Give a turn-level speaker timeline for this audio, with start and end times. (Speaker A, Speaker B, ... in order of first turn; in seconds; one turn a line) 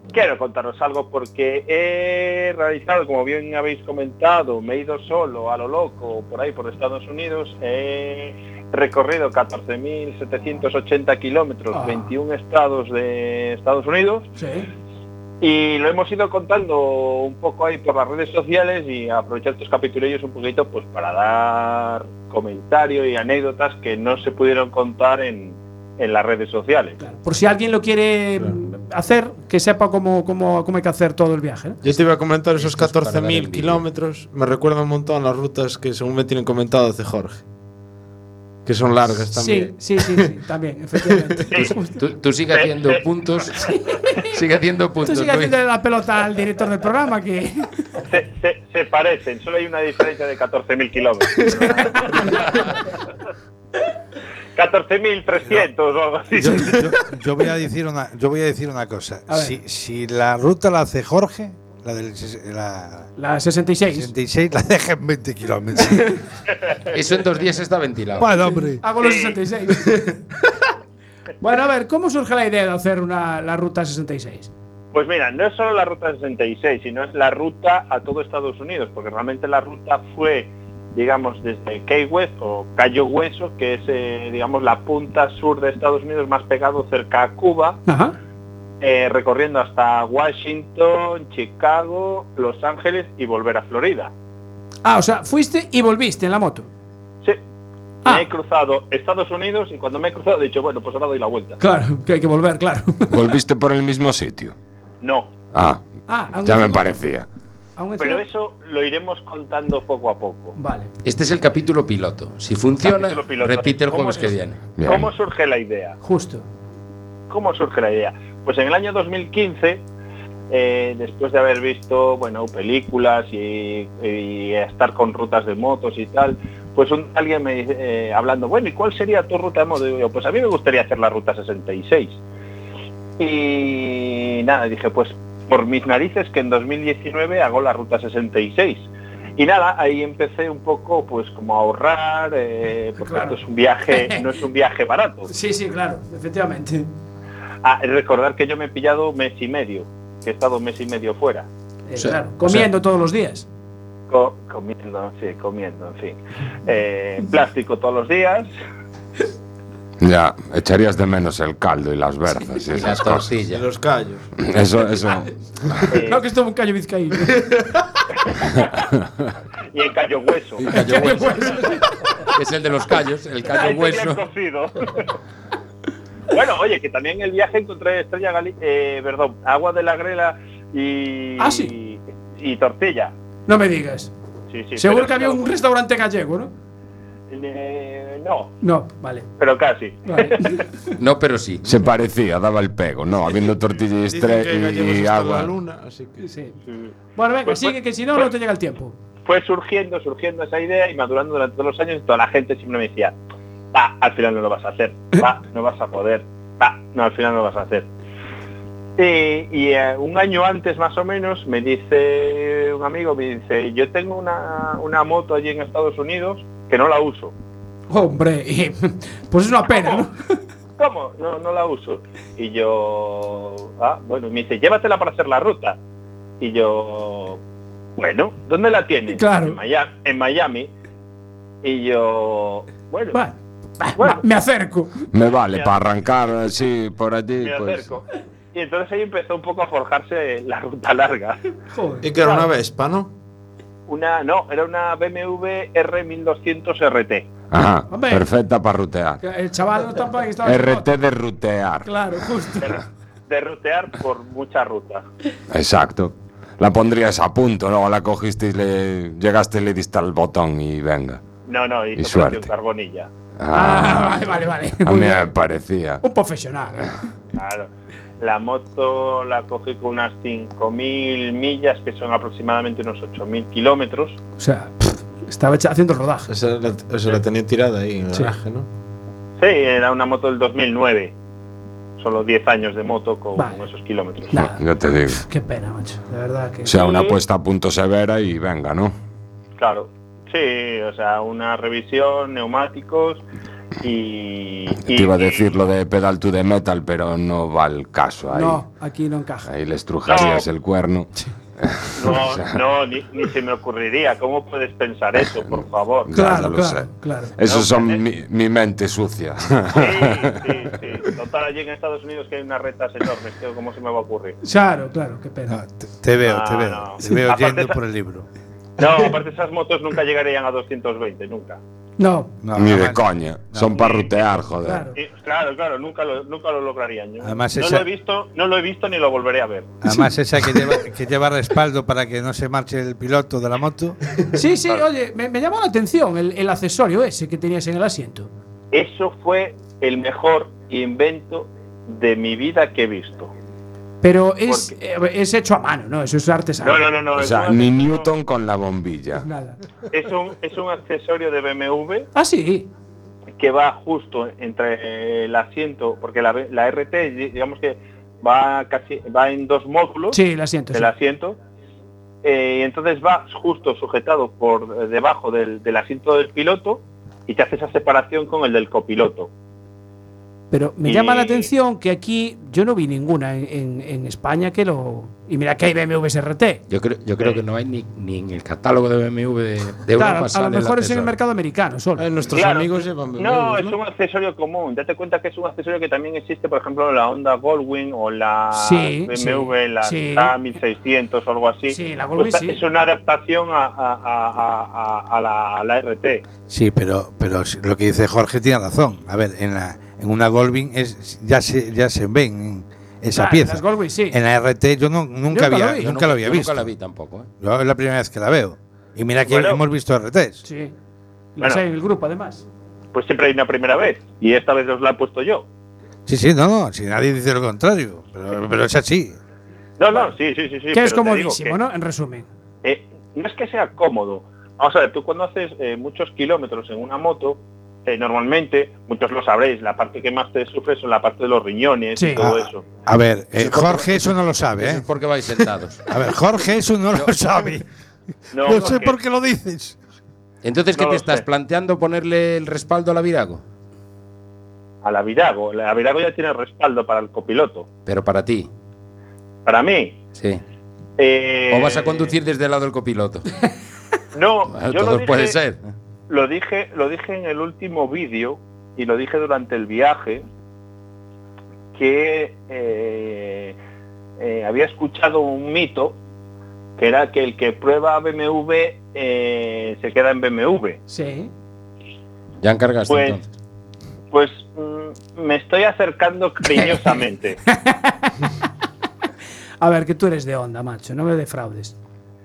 Speaker A: 0.1-14.3
Speaker B: 11.7-12.1
Speaker B: 14.4-14.7
Speaker A: 15.4-27.0
Speaker B: 27.0-31.8
Speaker C: 31.8-37.4
Speaker D: 31.9-33.8
Speaker C: 38.6-40.3
Speaker B: 39.3-42.0
Speaker C: 41.1-41.4
Speaker D: 41.8-43.7
Speaker A: 42.5-43.0
Speaker B: 43.6-44.1
Speaker D: 44.3-45.5
Speaker B: 45.0-47.8
Speaker A: 48.1-52.7
Speaker B: 51.4-52.6
Speaker A: 54.5-56.9
Speaker E: 56.4-63.1
Speaker B: 59.3-59.5
Speaker B: 63.2-64.1
Speaker E: 63.9-66.2
Speaker D: 66.9-68.3
Speaker E: 68.2-68.8
Speaker B: 68.3-70.2
Speaker A: 69.0-69.4
Speaker B: 71.4-74.5
Speaker A: 74.9-87.8
Speaker B: 87.9-88.1
Speaker A: 88.8-94.1
Speaker B: 94.8-96.7
Speaker A: 98.0-101.6
Speaker B: 101.6-103.2
Speaker F: 103.1-104.5
Speaker A: 105.0-105.3
Speaker F: 105.5-105.8
Speaker B: 106.1-106.9
Speaker F: 106.4-107.2
Speaker B: 107.8-108.2
Speaker A: 108.0-110.5
Speaker B: 110.5-110.9
Speaker D: 111.0-114.6
Speaker A: 112.8-116.0
Speaker F: 114.8-115.1
Speaker B: 116.0-116.4
Speaker A: 117.3-119.8
Speaker A: 120.5-132.2
Speaker A: 133.2-145.3
Speaker B: 143.0-144.3
Speaker B: 145.3-146.9
Speaker A: 147.6-151.4
Speaker B: 151.9-153.4
Speaker D: 152.0-152.7
Speaker A: 154.1-158.5
Speaker F: 160.0-163.4
Speaker D: 162.7-163.6
Speaker C: 163.5-164.3
Speaker F: 164.4-165.3
Speaker A: 165.9-166.2
Speaker B: 165.9-167.8
Speaker A: 169.7-171.2
Speaker D: 170.6-174.2
Speaker B: 170.7-172.3
Speaker A: 173.5-175.1
Speaker A: 176.3-183.1
Speaker B: 181.4-181.7
Speaker B: 183.5-184.1
Speaker A: 184.5-185.5
Speaker B: 184.8-186.5
Speaker A: 187.3-188.5
Speaker B: 188.6-189.3
Speaker A: 189.4-190.6
Speaker B: 190.1-190.6
Speaker D: 191.0-191.6
Speaker F: 191.6-195.5
Speaker C: 194.0-196.2
Speaker B: 196.2-196.6
Speaker B: 197.2-198.9
Speaker A: 197.4-198.3
Speaker A: 199.2-203.1
Speaker A: 203.7-207.9
Speaker A: 209.0-217.3
Speaker B: 217.9-220.2
Speaker A: 219.7-220.0
Speaker A: 220.8-225.8
Speaker A: 226.4-227.4
Speaker A: 228.0-230.7
Speaker B: 229.1-229.6
Speaker A: 231.6-233.2
Speaker B: 233.1-234.9
Speaker A: 234.0-234.2
Speaker F: 235.1-238.0
Speaker A: 237.4-238.0
Speaker A: 238.5-241.4
Speaker B: 241.7-242.1
Speaker C: 242.0-243.1
Speaker A: 242.2-242.5
Speaker A: 243.9-247.3
Speaker F: 247.5-249.2
Speaker B: 247.9-248.2
Speaker B: 249.2-250.9
Speaker F: 250.4-251.9
Speaker B: 251.8-252.8
Speaker A: 252.6-255.0
Speaker F: 255.5-261.2
Speaker A: 261.4-263.1
Speaker F: 261.9-262.5
Speaker F: 263.4-264.3
Speaker B: 263.5-265.3
Speaker F: 264.8-266.0
Speaker B: 266.0-266.9
Speaker A: 267.4-267.7
Speaker A: 268.2-274.2
Speaker B: 274.4-276.3
Speaker C: 276.3-278.7
Speaker A: 279.4-281.1
Speaker A: 282.0-284.3
Speaker B: 283.4-283.6
Speaker B: 284.3-287.1
Speaker F: 284.3-285.2
Speaker F: 286.6-288.9
Speaker A: 289.6-293.2
Speaker A: 293.8-295.5
Speaker F: 294.8-298.6
Speaker B: 298.3-299.5
Speaker F: 299.4-301.1
Speaker A: 300.1-300.4
Speaker F: 301.6-302.5
Speaker A: 302.0-306.1
Speaker F: 306.0-310.7
Speaker B: 306.1-307.3
Speaker A: 307.4-308.0
Speaker A: 309.7-314.4
Speaker B: 314.4-315.6
Speaker E: 315.5-318.3
Speaker A: 316.2-317.8
Speaker A: 318.8-321.6
Speaker B: 322.0-322.3
Speaker E: 322.4-323.8
Speaker F: 322.6-324.9
Speaker A: 323.7-324.2
Speaker B: 324.6-325.0
Speaker A: 324.9-329.7
Speaker E: 327.2-327.8
Speaker E: 329.8-334.0
Speaker B: 329.9-330.1
Speaker B: 334.3-338.3
Speaker A: 338.7-343.3
Speaker B: 344.0-346.9
Speaker A: 344.5-344.7
Speaker A: 346.6-348.1
Speaker F: 347.1-349.2
Speaker B: 349.2-349.6
Speaker A: 349.9-352.1
Speaker B: 352.1-352.7
Speaker A: 353.4-360.2
Speaker B: 360.1-360.9
Speaker A: 360.7-361.4
Speaker A: 362.2-369.3
Speaker B: 370.5-376.6
Speaker A: 370.8-371.5
Speaker D: 376.7-381.1
Speaker B: 380.0-382.1
Speaker C: 382.0-383.7
Speaker A: 382.3-396.2
Speaker B: 388.5-390.3
Speaker B: 391.7-392.6
Speaker E: 396.5-406.7
Speaker B: 403.1-404.2
Speaker B: 405.3-406.1
Speaker D: 406.0-407.3
Speaker E: 407.4-410.4
Speaker A: 409.2-409.6
Speaker B: 410.4-410.7
Speaker B: 411.4-412.4
Speaker A: 412.9-415.4
Speaker E: 416.1-419.2
Speaker A: 419.8-421.6
Speaker B: 420.7-422.3
Speaker A: 422.6-432.7
Speaker B: 431.9-432.4
Speaker E: 432.9-434.8
Speaker D: 433.4-435.9
Speaker E: 435.9-437.6
Speaker A: 438.3-438.9
Speaker E: 438.3-439.8
Speaker D: 440.4-443.4
Speaker A: 440.7-441.2
Speaker A: 444.8-447.6
Speaker D: 447.9-448.5
Speaker A: 449.4-450.0
Speaker D: 450.1-450.4
Speaker A: 451.0-452.1
Speaker D: 451.5-453.3
Speaker A: 454.1-455.4
Speaker D: 454.5-455.6
Speaker A: 456.1-460.2
Speaker A: 461.7-463.6
Speaker A: 464.2-466.0
Speaker A: 466.8-470.8
Speaker B: 470.9-471.3
Speaker D: 472.4-473.2
Speaker A: 472.9-473.2
Speaker A: 474.1-477.4
Speaker B: 476.6-476.9
Speaker B: 477.5-478.1
Speaker B: 479.6-481.7